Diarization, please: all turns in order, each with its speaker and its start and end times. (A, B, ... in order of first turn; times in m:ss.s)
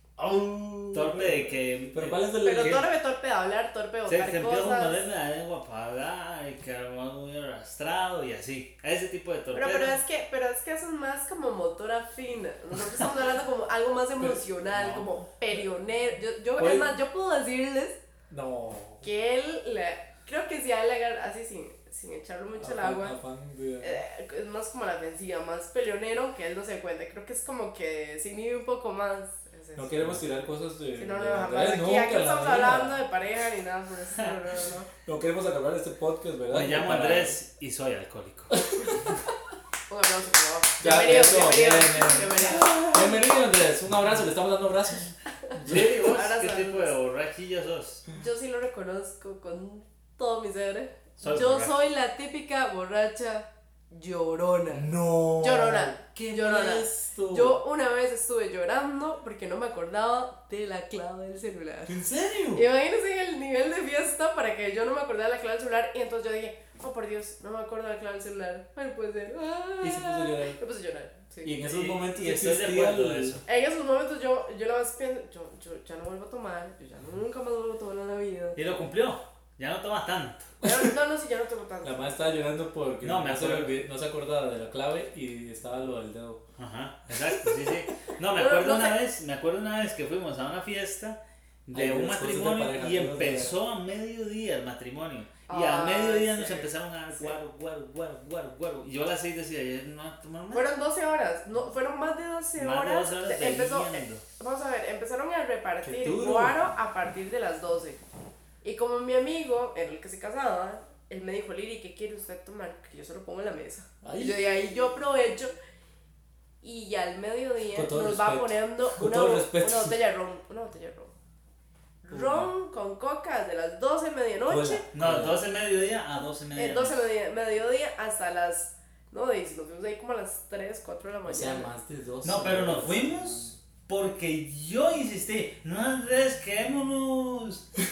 0:00.2-0:02.9 A
0:00.9-0:02.8 B
0:02.4-0:05.0 C
0:04.1-0:10.0 B
0:09.5-0:18.0 C
0:14.2-0:15.0 A
0:14.8-0:15.0 B
0:16.6-0:16.9 A
0:18.3-0:19.0 A
0:19.0-0:23.2 C
0:22.6-0:24.0 A
0:23.8-0:30.2 C
0:29.8-0:33.0 A
0:31.0-0:34.9 C
0:35.0-0:37.4 A
0:36.5-0:38.6 B
0:38.5-0:38.9 A
0:39.9-0:43.2 C
0:40.8-0:46.2 A
0:45.6-0:48.0 B
0:46.0-0:46.9 C
0:48.1-1:01.9 C
0:51.2-0:51.7 B
0:54.7-0:57.6 A
1:01.9-1:02.6 A
1:02.5-1:11.6 C
1:09.8-1:10.6 A
1:11.4-1:13.4 A
1:11.6-1:13.4 B
1:13.4-1:18.6 C
1:18.6-1:20.5 B
1:20.6-1:22.3 C
1:21.8-1:26.4 A
1:23.0-1:23.7 B
1:26.6-1:40.7 B
1:28.3-1:29.0 C
1:31.7-1:33.6 A
1:35.5-1:36.7 C
1:40.5-1:48.0 C
1:42.6-1:44.2 B
1:45.8-1:46.6 A
1:48.6-1:55.5 C
1:54.0-1:54.5 A
1:56.6-2:01.1 C
1:57.7-1:59.9 A
2:02.0-2:04.8 C
2:02.1-2:02.5 A
2:04.5-2:05.4 A
2:04.9-2:07.1 B
2:06.6-2:11.7 C
2:11.2-2:13.4 A
2:12.2-2:17.6 B